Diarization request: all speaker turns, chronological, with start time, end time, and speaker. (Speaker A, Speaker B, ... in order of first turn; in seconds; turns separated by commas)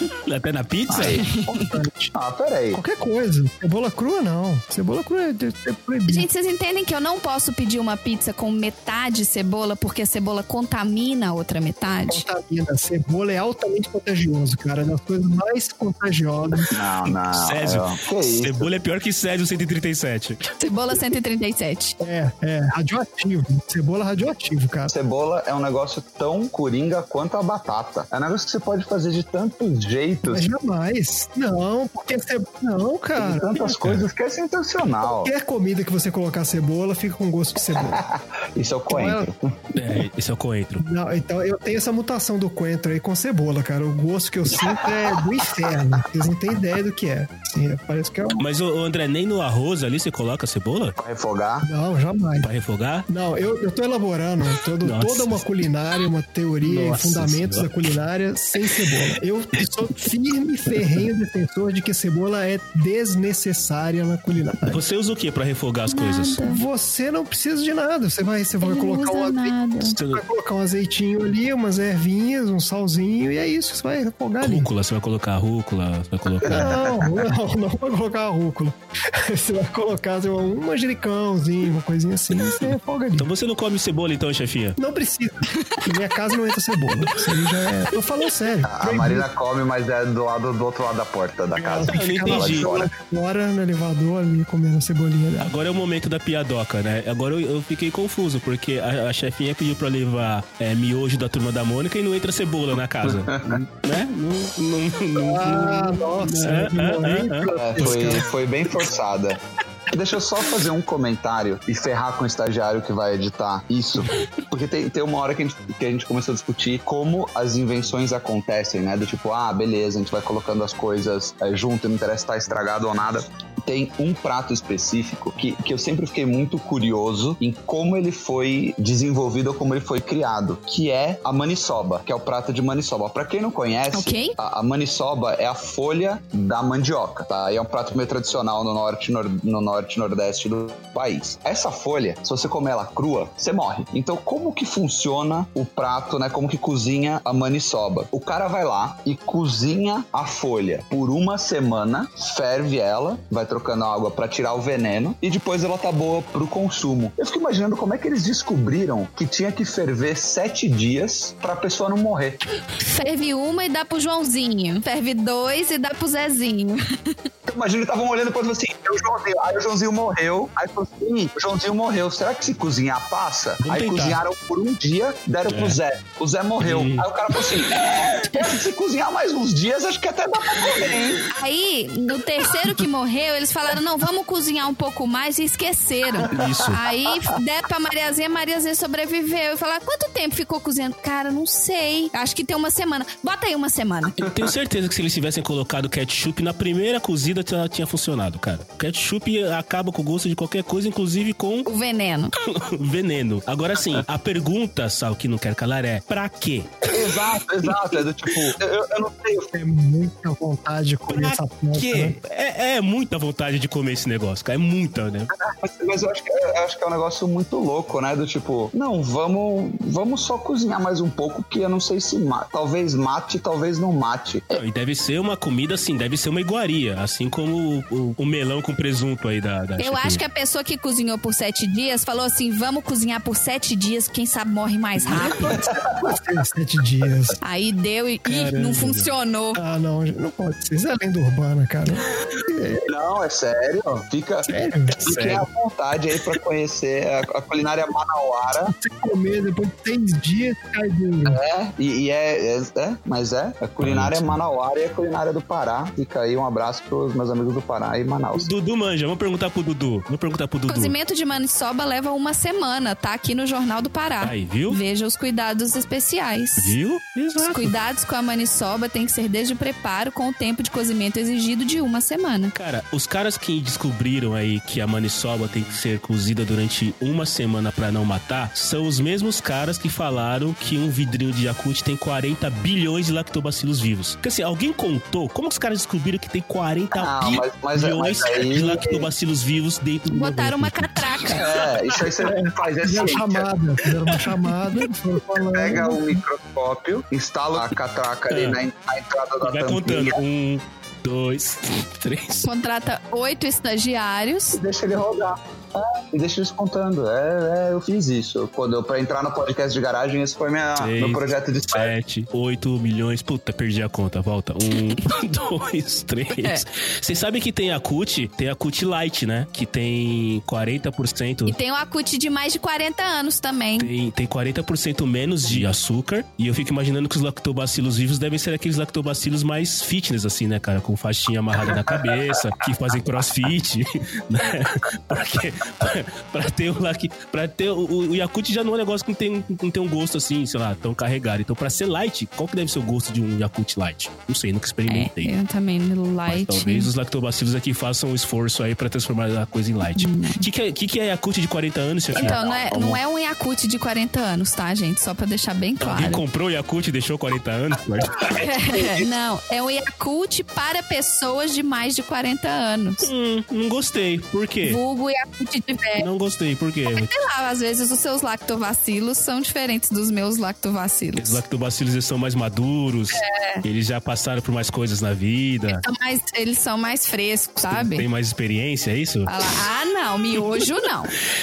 Speaker A: 0.2-1.2, Speaker B: 0.9-2.8, Speaker C: 1.5-2.1, Speaker C: 2.7-6.3, Speaker D: 6.1-12.2, Speaker C: 12.1-16.7, Speaker B: 16.7-18.7, Speaker A: 17.1-20.4, Speaker D: 20.6-22.0, Speaker C: 22.0-24.9, Speaker B: 24.9-30.5, Speaker C: 30.2-33.8, Speaker B: 33.2-35.3, Speaker A: 33.8-34.0, Speaker C: 35.0-38.0, Speaker B: 37.7-39.5, Speaker C: 38.9-39.3, Speaker A: 39.7-40.8, Speaker C: 40.8-48.4, Speaker A: 48.4-51.0, Speaker B: 51.0-51.7, Speaker C: 51.6-52.5, Speaker A: 52.4-53.1, Speaker C: 53.1-64.8, Speaker A: 54.8-55.4, Speaker A: 56.6-57.8, Speaker A: 64.7-66.4, Speaker D: 65.9-66.6, Speaker C: 66.4-69.6, Speaker D: 68.6-70.0, Speaker A: 69.8-70.2, Speaker C: 70.1-74.7, Speaker A: 74.4-76.8, Speaker B: 76.4-77.1, Speaker C: 76.5-83.3, Speaker A: 82.4-84.8, Speaker C: 84.8-89.3, Speaker B: 88.6-92.9, Speaker C: 91.5-95.5, Speaker A: 91.9-92.7, Speaker A: 95.4-108.2, Speaker B: 103.0-103.6, Speaker C: 105.1-108.3, Speaker B: 107.5-109.4, Speaker B: 109.9-162.4, Speaker D: 133.9-134.3, Speaker D: 162.8-167.2, Speaker B: 167.4-181.3, Speaker A: 173.6-174.2, Speaker A: 175.5-175.8, Speaker A: 176.6-177.1, Speaker D: 181.3-194.3, Speaker B: 186.2-186.8, Speaker A: 186.2-186.8, Speaker A: 194.2-201.7, Speaker D: 201.7-202.3, Speaker A: 202.4-207.2, Speaker B: 206.8-209.5, Speaker C: 209.5-212.2, Speaker A: 211.1-215.3, Speaker B: 215.4-224.6, Speaker A: 224.5-230.2, Speaker D: 229.8-235.7, Speaker A: 235.0-235.6, Speaker B: 235.5-236.2, Speaker C: 236.0-237.4, Speaker D: 237.4-239.6, Speaker A: 238.2-239.1, Speaker C: 239.5-242.8, Speaker B: 242.9-244.5, Speaker C: 244.4-245.0, Speaker A: 245.0-245.4, Speaker B: 245.0-248.7, Speaker C: 248.7-251.4, Speaker B: 251.3-258.5, Speaker A: 253.8-254.4, Speaker A: 258.3-260.9, Speaker D: 260.7-266.7, Speaker A: 264.2-264.8, Speaker A: 266.6-267.7, Speaker D: 267.4-272.5, Speaker A: 272.5-291.6, Speaker B: 286.9-289.1, Speaker D: 290.1-291.5, Speaker B: 291.3-293.5, Speaker C: 292.2-296.2, Speaker B: 295.4-300.2, Speaker A: 298.3-298.6, Speaker A: 299.4-302.4, Speaker D: 302.4-304.6, Speaker B: 304.5-311.9, Speaker A: 310.8-321.6, Speaker D: 316.3-316.6, Speaker D: 321.5-323.9, Speaker A: 323.8-345.3, Speaker D: 344.9-346.9, Speaker A: 346.3-353.0, Speaker D: 350.0-350.4, Speaker B: 352.1-352.6, Speaker D: 352.1-356.2, Speaker A: 355.8-358.4, Speaker B: 358.3-359.0, Speaker D: 358.3-363.1, Speaker A: 363.0-364.8, Speaker D: 364.6-366.1, Speaker A: 366.0-367.1, Speaker D: 366.9-371.4, Speaker A: 371.2-375.8, Speaker D: 373.1-373.6, Speaker D: 375.7-378.1, Speaker A: 377.7-379.3, Speaker D: 379.2-381.1